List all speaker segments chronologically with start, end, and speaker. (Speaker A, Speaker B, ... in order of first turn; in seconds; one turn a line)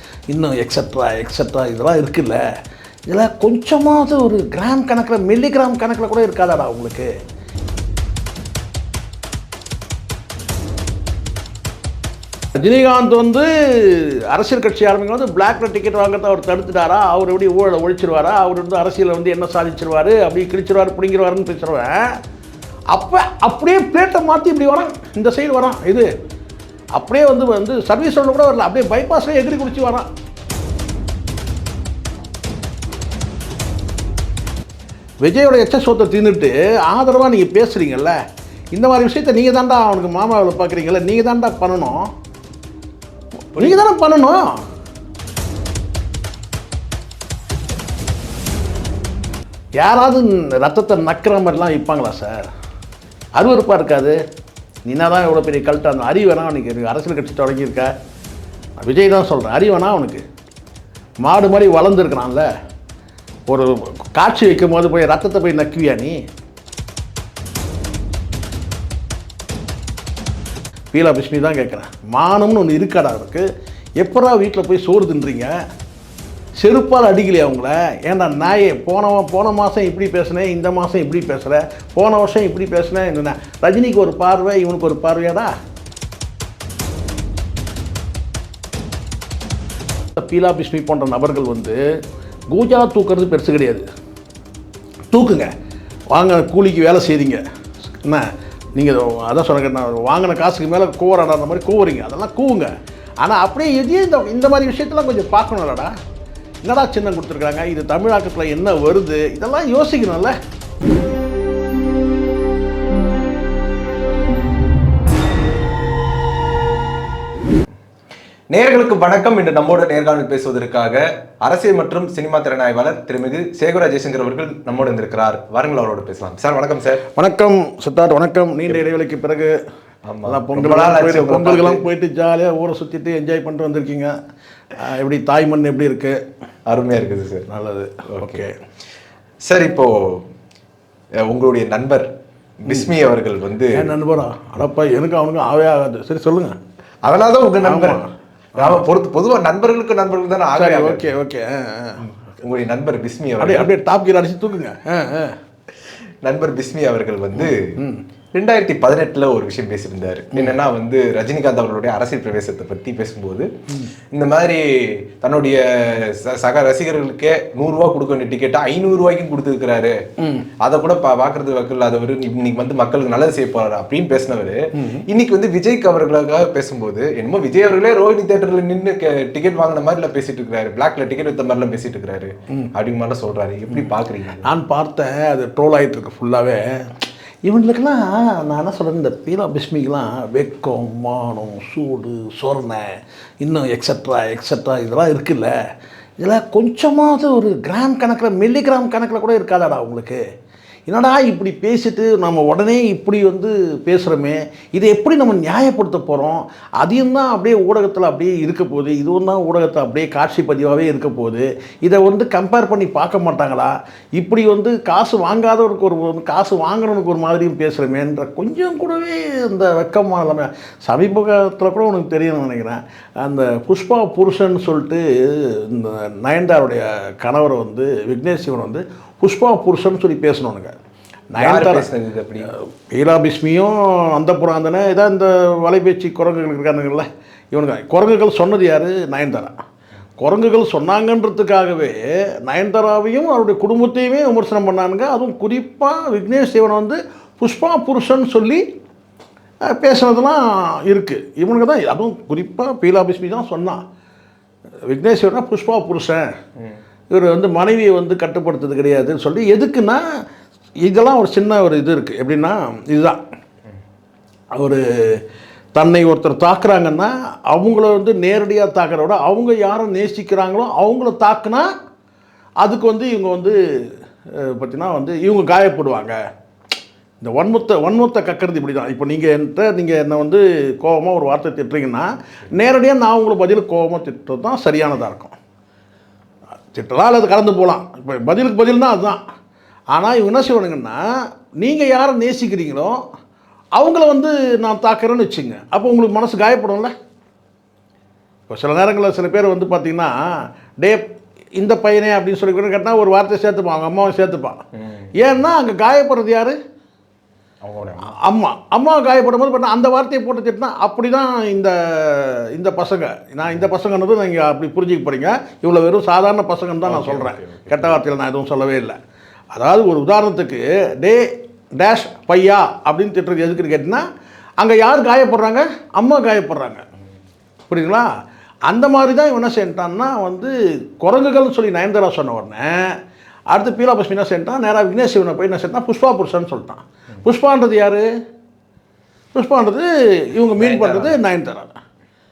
Speaker A: 0.3-2.4
Speaker A: 3.1-7.1
Speaker A: 12.6-22.1
Speaker A: 22.9-26.1
Speaker A: 27.0-30.1
Speaker A: 35.2-38.2
Speaker A: 38.7-42.1
Speaker A: 43.5-44.6
Speaker A: 49.8-52.5
Speaker A: 53.4-54.2
Speaker A: 54.9-57.9
Speaker A: 58.8-60.2
Speaker A: 61.2-62.5
Speaker A: 63.5-66.2
Speaker A: 70.9-73.5
Speaker A: 74.0-75.5
Speaker A: 76.6-85.5
Speaker A: 90.2-91.8
Speaker A: 92.5-93.8
Speaker A: 95.1-95.5
Speaker A: 96.1-97.4
Speaker A: 98.8-105.9
Speaker A: 106.6-110.3
Speaker B: 118.5-127.0
Speaker A: 127.2-129.5
Speaker B: 130.1-131.8
Speaker A: 130.3-134.1
Speaker A: 134.8-136.2
Speaker B: 136.7-137.5
Speaker A: 137.5-138.6
Speaker B: 138.1-138.4
Speaker B: 139.4-140.3
Speaker B: 141.2-142.1
Speaker B: 142.6-143.8
Speaker A: 143.7-146.6
Speaker B: 147.0-148.0
Speaker A: 147.6-148.8
Speaker B: 148.6-151.1
Speaker A: 150.6-152.0
Speaker B: 152.0-153.7
Speaker A: 153.4-155.4
Speaker B: 156.2-157.8
Speaker A: 157.4-158.0
Speaker B: 158.3-163.5
Speaker B: 164.1-170.0
Speaker A: 170.2-170.5
Speaker B: 170.6-184.5
Speaker A: 174.8-175.0
Speaker A: 184.4-186.9
Speaker A: 187.5-192.9
Speaker A: 193.4-195.5
Speaker A: 196.2-200.2
Speaker A: 200.9-230.8
Speaker A: 231.3-231.9
Speaker B: 231.4-232.5
Speaker A: 232.5-239.5
Speaker A: 240.2-248.7
Speaker A: 249.7-253.8
Speaker A: 254.9-256.3
Speaker A: 257.1-260.0
Speaker A: 260.8-263.2
Speaker A: 264.6-265.2
Speaker A: 265.8-271.7
Speaker A: 272.6-276.2
Speaker A: 277.2-285.4
Speaker A: 286.7-289.2
Speaker A: 289.9-291.0
Speaker A: 291.6-293.0
Speaker A: 293.8-296.9
Speaker A: 298.5-300.1
Speaker A: 301.6-304.6
Speaker B: 304.8-305.1
Speaker A: 305.2-306.6
Speaker B: 307.6-308.1
Speaker A: 308.1-319.0
Speaker B: 316.8-318.0
Speaker A: 319.5-321.3
Speaker A: 321.8-324.0
Speaker A: 324.6-326.8
Speaker A: 327.7-328.1
Speaker A: 328.7-333.0
Speaker A: 333.5-338.1
Speaker A: 339.3-341.8
Speaker B: 340.6-341.1